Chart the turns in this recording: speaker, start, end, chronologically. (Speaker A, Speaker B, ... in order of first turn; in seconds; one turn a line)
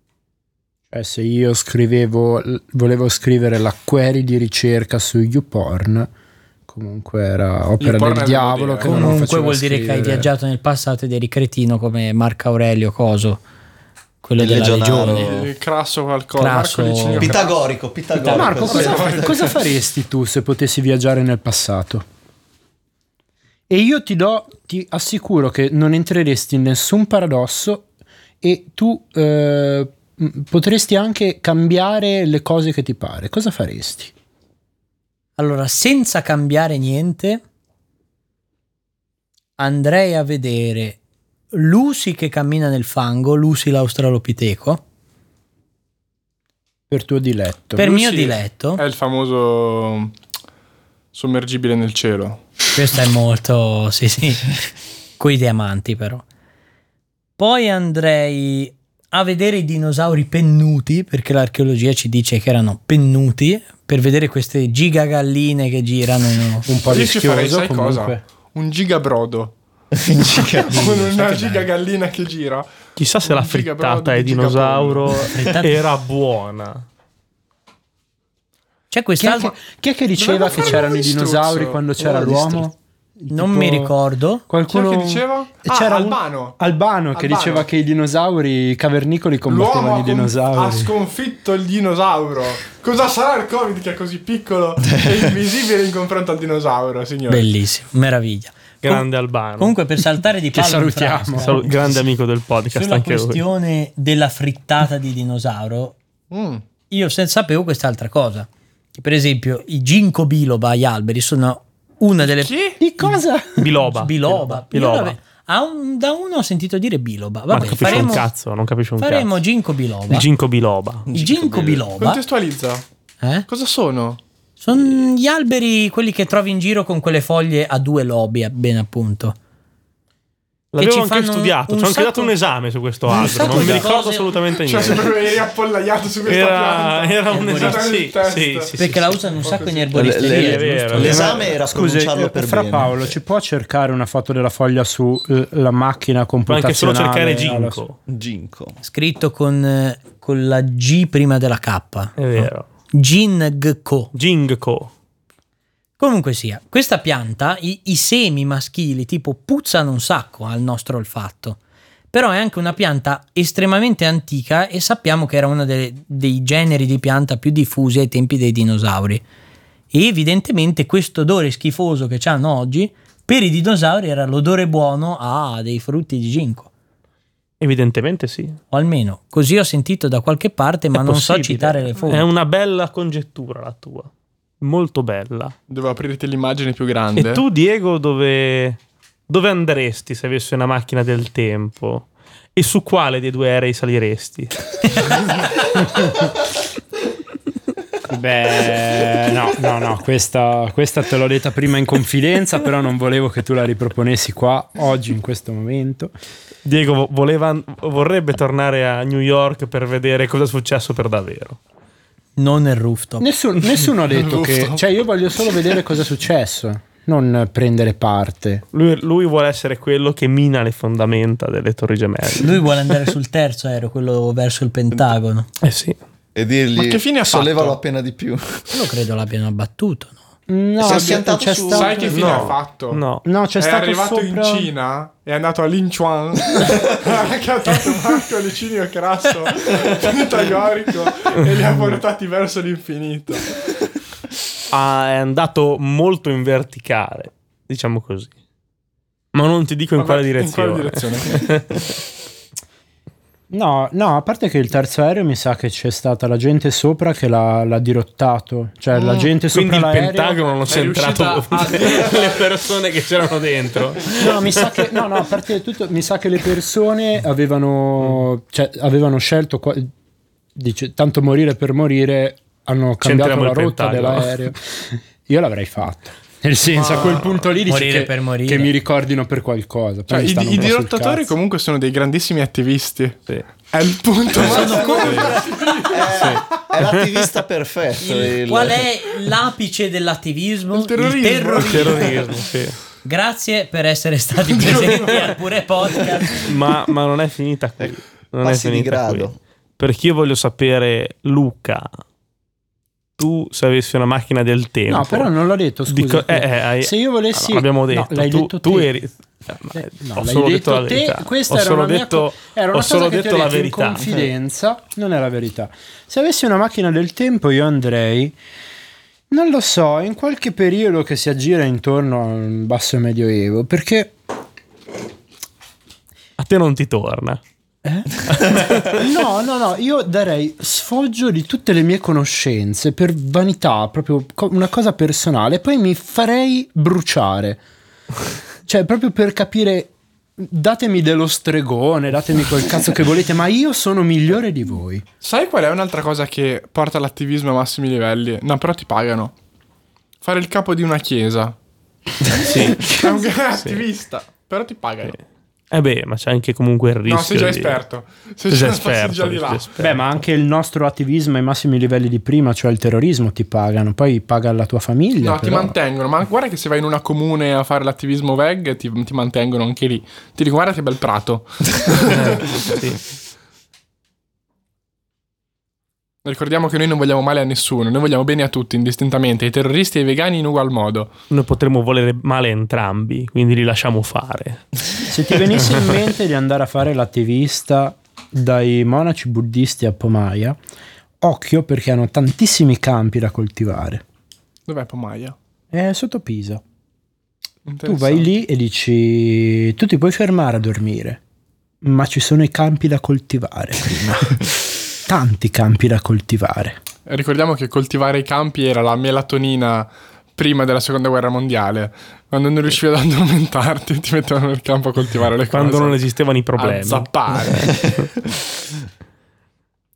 Speaker A: 0.9-6.1
Speaker A: 6.7-10.3
Speaker B: 7.8-9.2
Speaker C: 8.8-13.4
Speaker C: 14.2-15.4
Speaker D: 14.4-15.5
Speaker B: 15.0-17.6
Speaker C: 16.4-17.4
Speaker D: 17.2-19.5
Speaker C: 18.2-19.0
Speaker A: 18.3-22.0
Speaker B: 18.5-19.5
Speaker A: 23.7-27.9
Speaker A: 28.4-34.1
Speaker C: 35.4-37.4
Speaker C: 39.6-41.0
Speaker C: 41.5-44.8
Speaker A: 46.9-47.8
Speaker C: 47.8-48.8
Speaker B: 47.8-50.2
Speaker B: 51.1-52.4
Speaker C: 52.7-54.5
Speaker C: 55.2-56.2
Speaker C: 57.4-66.7
Speaker A: 66.7-68.2
Speaker B: 66.9-69.5
Speaker D: 69.9-70.8
Speaker B: 70.6-72.7
Speaker C: 70.7-71.7
Speaker E: 73.0-76.8
Speaker B: 73.2-75.3
Speaker C: 75.3-75.8
Speaker C: 78.9-79.5
Speaker A: 79.2-83.9
Speaker B: 80.2-82.5
Speaker C: 83.3-84.4
Speaker A: 84.5-90.9
Speaker B: 84.7-86.6
Speaker B: 87.1-87.7
Speaker B: 89.5-97.5
Speaker C: 97.3-102.0
Speaker E: 98.8-99.7
Speaker A: 100.5-101.6
Speaker E: 101.4-103.4
Speaker C: 102.7-106.0
Speaker B: 106.3-106.6
Speaker C: 106.9-113.2
Speaker B: 112.3-112.8
Speaker A: 112.8-113.6
Speaker E: 113.6-115.2
Speaker C: 113.8-118.3
Speaker E: 117.5-119.3
Speaker B: 117.7-118.2
Speaker C: 119.0-120.3
Speaker E: 120.1-121.1
Speaker D: 121.1-121.9
Speaker C: 121.1-122.2
Speaker B: 122.0-122.8
Speaker C: 123.2-123.5
Speaker B: 123.5-124.2
Speaker C: 124.6-129.3
Speaker E: 130.7-135.1
Speaker C: 130.8-132.3
Speaker C: 133.1-134.3
Speaker B: 134.6-138.7
Speaker E: 136.2-139.2
Speaker C: 137.3-137.8
Speaker C: 138.8-141.2
Speaker B: 139.4-140.2
Speaker D: 139.9-143.0
Speaker E: 140.2-141.4
Speaker A: 141.0-147.8
Speaker E: 146.5-148.0
Speaker D: 148.1-148.8
Speaker C: 148.8-154.1
Speaker E: 152.2-152.6
Speaker E: 154.1-154.9
Speaker C: 156.0-161.6
Speaker C: 162.1-169.2
Speaker C: 169.9-176.7
Speaker E: 177.6-178.6
Speaker C: 178.7-182.3
Speaker E: 180.9-184.1
Speaker E: 184.6-185.5
Speaker B: 185.7-187.4
Speaker E: 187.2-195.3
Speaker A: 195.8-196.3
Speaker A: 198.1-206.1
Speaker E: 206.6-211.6
Speaker C: 212.4-213.3
Speaker A: 213.2-218.6
Speaker B: 214.1-214.8
Speaker E: 218.7-223.1
Speaker C: 222.4-225.5
Speaker E: 225.6-226.0
Speaker D: 226.3-228.8
Speaker B: 226.7-227.8
Speaker C: 228.7-230.2
Speaker A: 230.5-232.5
Speaker D: 230.8-232.4
Speaker B: 230.8-233.0
Speaker E: 232.1-233.2
Speaker A: 233.2-234.7
Speaker B: 233.6-243.5
Speaker E: 244.7-248.3
Speaker E: 249.3-251.9
Speaker B: 250.0-251.5
Speaker A: 253.5-260.4
Speaker B: 258.9-259.3
Speaker E: 259.5-265.0
Speaker B: 260.7-262.4
Speaker A: 264.1-269.9
Speaker A: 270.5-281.3
Speaker E: 273.0-274.3
Speaker B: 276.8-277.2
Speaker E: 276.9-277.4
Speaker C: 277.6-278.7
Speaker B: 280.1-286.3
Speaker C: 284.4-285.5
Speaker D: 285.8-288.9
Speaker E: 286.1-287.3
Speaker C: 288.0-292.2
Speaker B: 290.7-292.2
Speaker E: 291.6-292.8
Speaker C: 293.0-296.5
Speaker B: 294.6-295.0
Speaker E: 294.9-295.3
Speaker E: 296.4-301.9
Speaker D: 298.4-299.4
Speaker E: 303.2-305.3
Speaker A: 304.9-308.9
Speaker E: 305.9-314.1
Speaker A: 309.7-318.4
Speaker A: 319.3-324.1
Speaker E: 326.4-327.4
Speaker A: 327.8-337.6
Speaker E: 328.3-329.0
Speaker A: 338.7-345.0
Speaker B: 345.2-349.3
Speaker B: 350.2-351.6
Speaker E: 352.3-353.0
Speaker B: 352.7-355.2
Speaker E: 353.6-353.8
Speaker E: 355.7-357.8
Speaker B: 357.1-359.7
Speaker E: 358.5-360.0
Speaker A: 359.8-365.7
Speaker B: 365.2-372.8
Speaker E: 372.1-373.0
Speaker B: 376.2-381.1
Speaker E: 381.3-384.6
Speaker A: 385.1-390.6
Speaker A: 391.2-394.0
Speaker B: 394.7-395.4
Speaker A: 395.7-396.6
Speaker B: 397.6-398.3
Speaker A: 397.8-401.2
Speaker A: 401.8-406.8
Speaker B: 407.1-416.0
Speaker E: 415.5-418.1
Speaker B: 416.6-417.7